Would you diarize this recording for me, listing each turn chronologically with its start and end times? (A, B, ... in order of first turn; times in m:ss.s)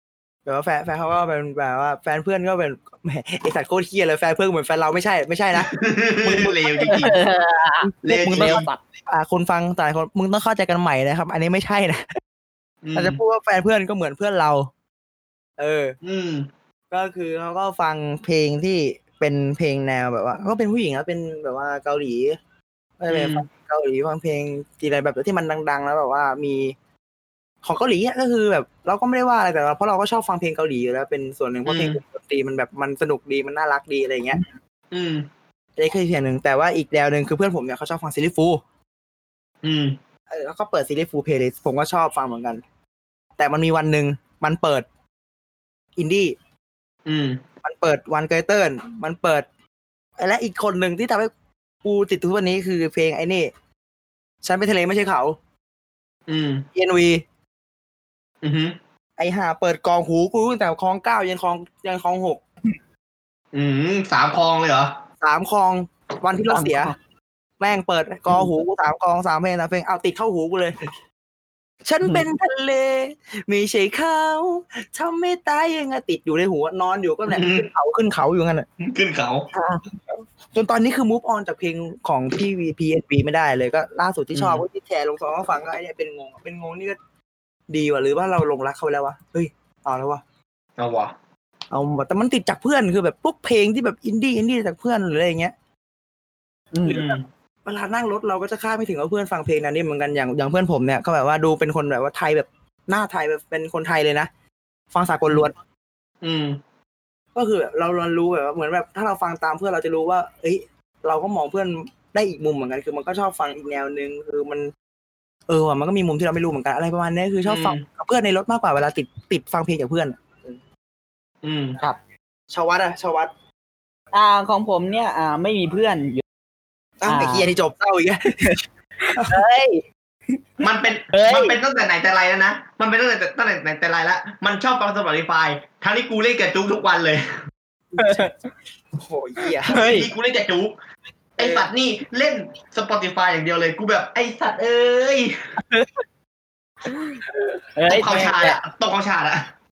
0:00.5-0:07.1 A
0:05.5-0:07.2 B
0:06.9-0:08.8 C
0:07.8-0:12.0 A
0:08.0-0:08.7 B
0:12.8-0:13.2 B
0:13.0-0:14.7 A
0:15.6-0:16.0 A
0:16.0-0:16.5 B
0:16.9-0:22.4 A
0:23.0-0:26.8 A
0:23.1-0:23.5 B
0:27.6-0:34.4 A
0:31.6-0:32.0 B
0:34.9-0:35.3 B
0:35.8-0:38.6 A
0:39.6-0:40.0 B
0:40.3-0:42.6 A
0:43.4-0:44.8 A
0:46.0-0:46.4 A
0:47.1-0:47.4 B
0:47.6-0:49.5 A
0:50.2-0:51.3 A
0:51.8-0:53.5 A
0:54.4-0:55.4 A
0:56.3-0:56.7 B
0:56.8-0:57.2 A
0:58.4-0:58.8 B
0:59.2-1:02.4 A
1:03.5-1:04.9 B
1:05.2-1:06.9 A
1:06.5-1:07.0 C
1:07.6-1:10.8 A
1:11.8-1:18.7 A
1:17.3-1:17.7 B
1:18.8-1:19.5 B
1:19.5-1:27.0 A
1:24.3-1:24.6 B
1:27.7-1:30.2 A
1:30.8-1:31.1 B
1:31.7-1:35.5 A
1:36.7-1:37.0 C
1:36.9-1:37.2 B
1:36.9-1:44.3 A
1:44.9-1:45.5 A
1:46.2-1:46.6 B
1:47.4-1:54.7 A
1:55.5-2:00.6 A
1:57.4-1:57.8 B
2:01.4-2:01.8 B
2:02.5-2:03.3 A
2:04.1-2:06.2 C
2:07.0-2:08.6 A
2:07.1-2:07.5 C
2:09.0-2:09.8 C
2:10.6-2:17.2 B
2:11.1-2:11.5 C
2:17.9-2:18.3 A
2:18.0-2:18.5 C
2:19.0-2:20.0 A
2:19.6-2:20.1 C
2:19.7-2:20.8 B
2:21.4-2:25.3 B
2:21.4-2:21.6 A
2:25.6-2:26.0 C
2:26.9-2:27.2 C
2:27.8-2:28.6 C
2:27.9-2:29.5 B